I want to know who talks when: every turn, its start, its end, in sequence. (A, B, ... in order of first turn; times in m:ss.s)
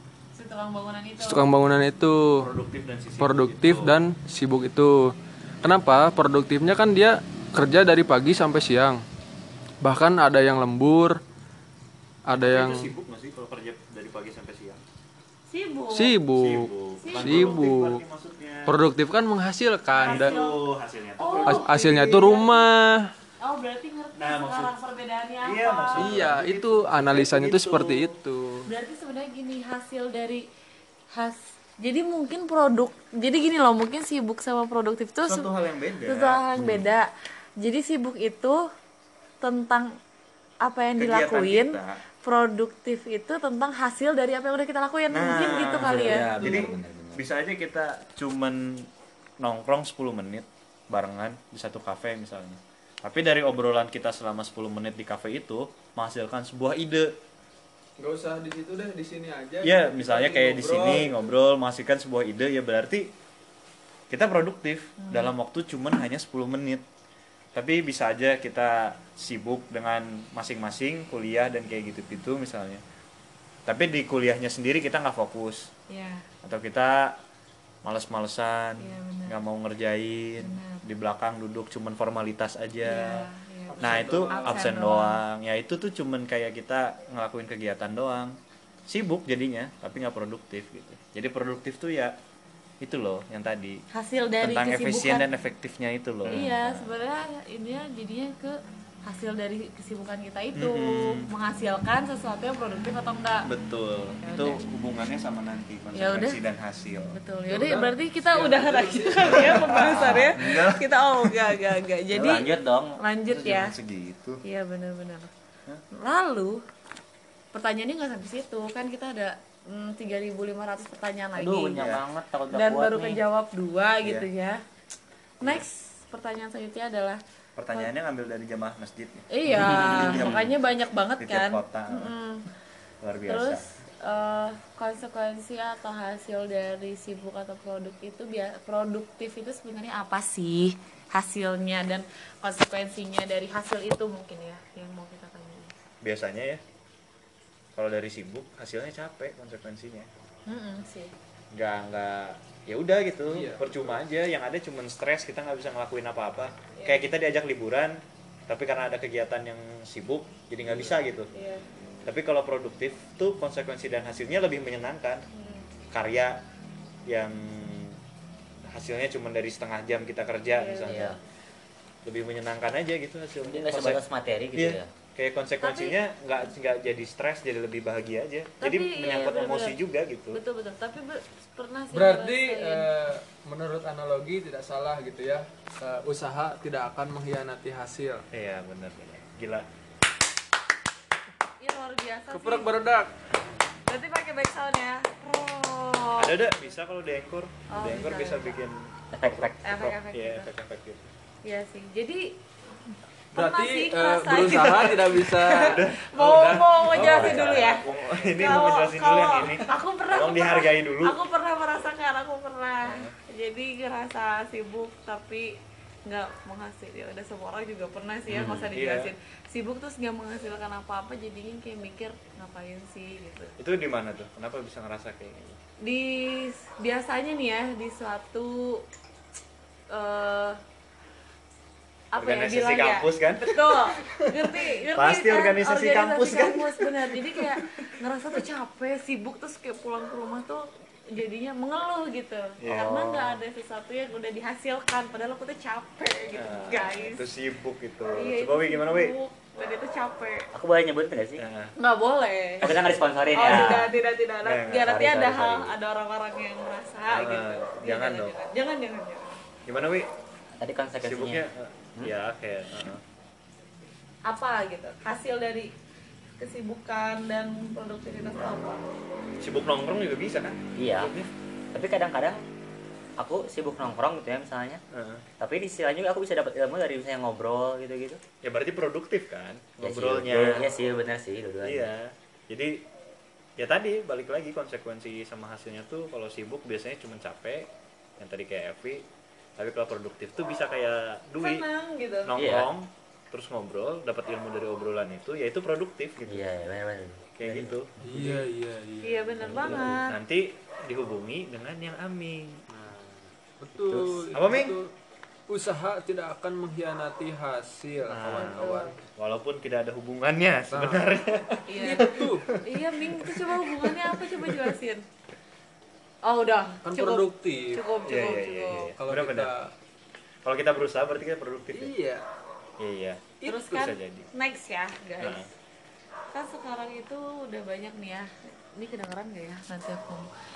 0:00.4-0:01.5 A
0:01.2-0:02.5 B
0:02.4-0:04.0 C
0:03.2-0:09.0 B
0:09.8-0:11.2 B
0:12.2-0:12.9 B
0:12.3-0:14.8 C
0:15.5-0:16.2 A
0:15.9-0:18.0 B
0:16.3-0:18.8 C
0:17.0-0:17.5 A
0:18.7-0:20.3 B
0:19.9-0:20.6 A
0:20.0-0:22.1 C
0:21.2-0:22.7 A
0:21.4-0:23.1 B
0:23.4-0:26.1 A
0:24.2-0:24.7 C
0:25.4-0:28.1 C
0:26.0-0:28.7 B
0:28.6-0:30.4 A
0:31.1-0:35.5 A
0:35.2-0:36.8 C
0:36.0-0:38.7 A
0:39.4-0:39.9 A
0:40.6-0:46.3 A
0:41.0-0:42.0 C
0:45.1-0:48.9 C
0:45.5-0:47.2 D
0:46.3-0:46.8 B
0:49.4-0:57.1 C
0:58.0-1:01.2 B
0:59.6-1:03.1 C
1:04.1-1:06.8 C
1:05.0-1:05.3 A
1:07.5-1:12.8 C
1:13.6-1:15.7 C
1:15.9-1:16.3 A
1:16.4-1:17.2 C
1:17.8-1:32.2 C
1:18.8-1:19.4 A
1:20.4-1:20.8 A
1:22.8-1:25.2 A
1:23.8-1:24.8 B
1:32.8-1:33.8 C
1:33.9-1:35.2 A
1:34.4-1:36.9 C
1:36.2-1:43.5 A
1:40.5-1:41.3 C
1:43.4-1:47.2 C
1:44.2-1:44.6 A
1:45.9-1:46.4 A
1:47.1-1:53.7 A
1:47.5-1:49.8 B
1:49.2-1:51.3 C
1:49.8-1:50.3 D
1:52.1-1:53.0 D
1:53.3-1:54.4 C
1:54.4-1:55.3 A
1:55.9-1:56.6 A
1:57.5-2:01.8 A
2:01.4-2:03.2 D
2:01.8-2:02.0 C
2:02.5-2:04.6 A
2:04.0-2:04.3 C
2:05.4-2:07.2 A
2:07.6-2:10.5 C
2:09.3-2:12.4 A
2:09.5-2:10.5 D
2:11.2-2:12.1 C
2:13.0-2:13.6 C
2:13.3-2:25.7 A
2:26.0-2:26.6 C
2:27.7-2:30.1 C
2:30.5-2:31.1 A
2:31.5-2:41.3 C
2:33.3-2:34.0 B
2:36.8-2:37.0 A
2:41.3-2:41.6 A
2:42.0-2:45.2 C
2:45.3-2:45.7 A
2:45.9-2:46.4 C
2:47.1-2:48.0 C
2:48.7-2:51.2 C
2:50.5-2:51.2 A
2:50.9-2:51.1 D
2:52.0-2:54.0 C
2:53.4-2:54.9 D
2:54.5-3:00.4 C
2:55.6-2:56.0 A
2:58.6-2:59.8 A
3:00.3-3:02.9 A
3:01.9-3:08.2 B
3:08.3-3:09.6 C
3:11.6-3:12.7 A
3:12.3-3:13.1 B
3:13.8-3:16.3 A
3:16.2-3:21.1 C
3:17.7-3:18.6 A
3:19.1-3:19.7 D
3:19.6-3:20.5 A
3:21.4-3:22.4 A
3:23.3-3:43.5 A
3:23.3-3:27.6 B
3:25.6-3:31.2 C
3:26.9-3:27.6 D
3:32.8-3:33.1 C
3:38.3-3:38.6 D
3:38.7-3:39.1 C
3:43.6-3:45.6 C
3:45.8-3:48.8 A
3:49.9-3:50.6 A
3:52.1-4:07.2 A
3:52.2-3:57.9 C
4:02.6-4:03.4 C
4:06.3-4:09.1 C
4:08.1-4:10.5 A
4:10.5-4:11.4 D
4:11.4-4:11.7 C
4:11.8-4:12.7 A
4:12.6-4:13.9 C
4:12.6-4:13.9 D
4:13.3-4:19.4 A
4:14.4-4:15.7 C
4:15.1-4:15.4 D
4:17.1-4:18.3 C
4:19.6-4:20.1 C
4:20.6-4:21.4 D
4:21.0-4:23.0 C
4:24.2-4:25.7 A
4:26.4-4:28.8 A
4:29.4-4:31.3 C
4:30.8-4:31.1 D
4:31.7-4:32.4 D
4:33.2-4:34.8 D
4:34.9-4:35.2 C
4:35.4-4:38.2 D
4:38.4-4:40.7 C
4:39.8-4:41.9 D
4:41.6-4:42.8 C
4:43.6-4:49.0 C
4:49.6-4:51.6 C
4:51.4-4:52.4 A
4:52.2-4:56.4 C
4:52.4-4:52.7 D
4:56.3-4:57.7 D
4:57.4-4:58.4 C
4:58.0-4:59.5 B
4:59.0-5:00.2 A
4:59.5-4:59.9 D
4:59.6-5:02.6 C
5:02.7-5:04.9 B
5:03.9-5:04.8 C
5:05.5-5:09.0 B
5:08.1-5:14.7 C
5:08.3-5:08.9 A
5:10.7-5:12.5 B
5:11.7-5:15.0 A
5:16.2-5:18.9 A
5:16.8-5:17.8 B
5:18.0-5:19.5 C
5:19.0-5:19.7 B
5:20.4-5:21.9 C
5:21.7-5:22.2 B
5:22.8-5:24.3 C
5:23.4-5:23.8 B
5:23.4-5:25.5 A
5:25.2-5:25.5 C
5:26.3-5:30.3 A